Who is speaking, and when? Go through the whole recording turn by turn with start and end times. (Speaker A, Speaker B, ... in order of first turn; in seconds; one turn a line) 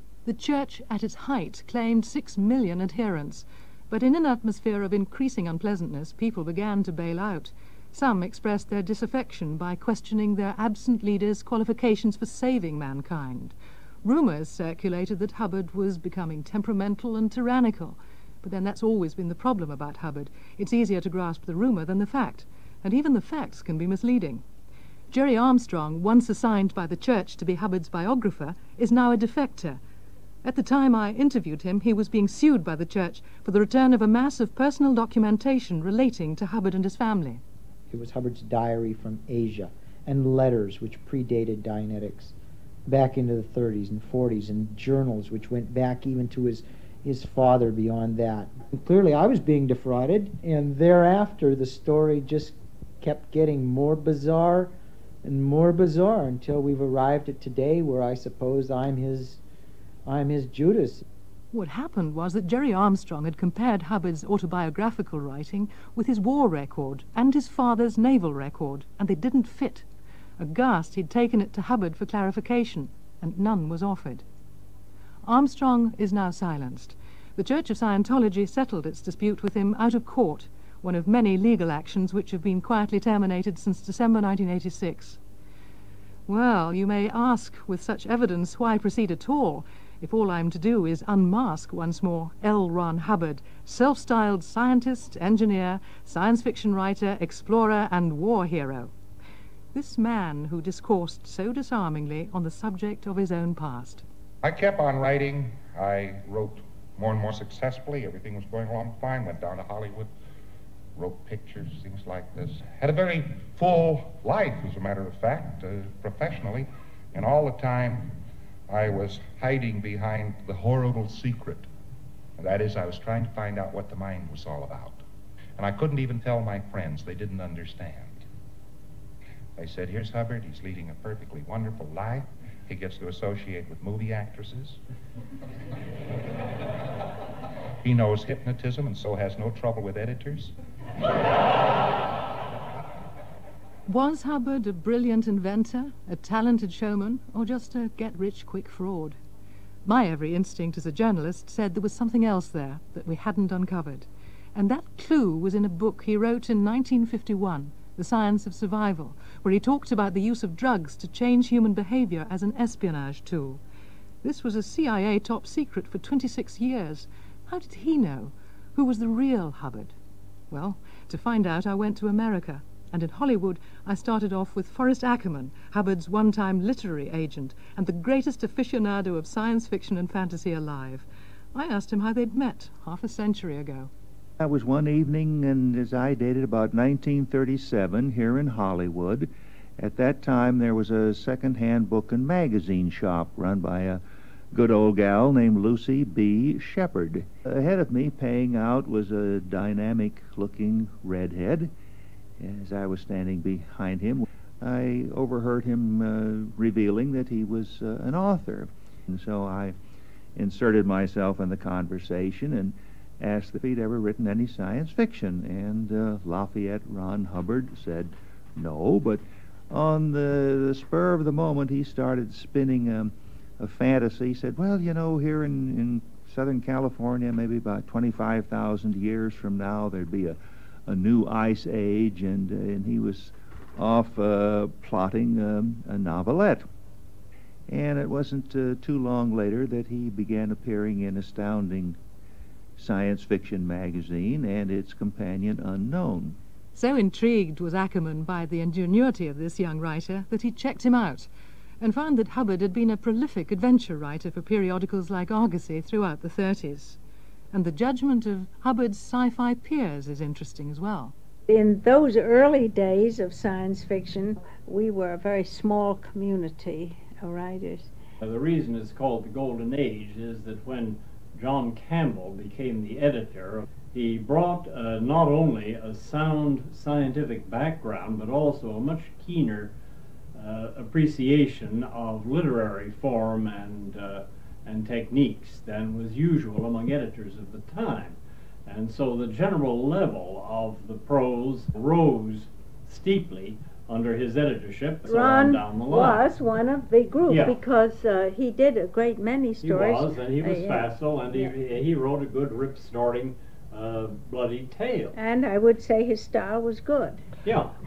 Speaker A: 0.2-24.4
Speaker A: 25.1-29.8
Speaker A: 30.4-37.4
Speaker B: 37.9-42.3
Speaker B: 42.9-59.4
Speaker B: 60.1-61.0
Speaker A: 61.5-69.8
Speaker A: 70.4-74.2
Speaker A: 75.2-85.2
Speaker A: 86.3-98.9
Speaker A: 99.7-104.0
Speaker C: 104.4-110.1
Speaker C: 111.0-118.2
Speaker C: 118.7-121.7
Speaker C: 122.4-125.0
Speaker C: 125.6-128.2
Speaker C: 129.6-134.8
Speaker C: 137.8-140.6
Speaker A: 143.9-149.2
Speaker A: 149.8-163.6
Speaker A: 164.2-169.9
Speaker A: 170.5-183.9
Speaker D: 184.4-194.0
Speaker D: 194.5-201.7
Speaker D: 202.4-209.8
Speaker D: 210.4-236.7
Speaker D: 237.7-242.0
Speaker D: 242.8-246.4
Speaker A: 246.8-251.3
Speaker A: 251.8-257.0
Speaker A: 257.5-261.1
Speaker E: 261.5-267.9
Speaker F: 268.2-279.7
Speaker F: 280.4-296.3
Speaker E: 295.1-301.5
Speaker F: 297.2-297.6
Speaker F: 299.6-305.1
Speaker E: 305.1-307.2
Speaker F: 307.4-307.7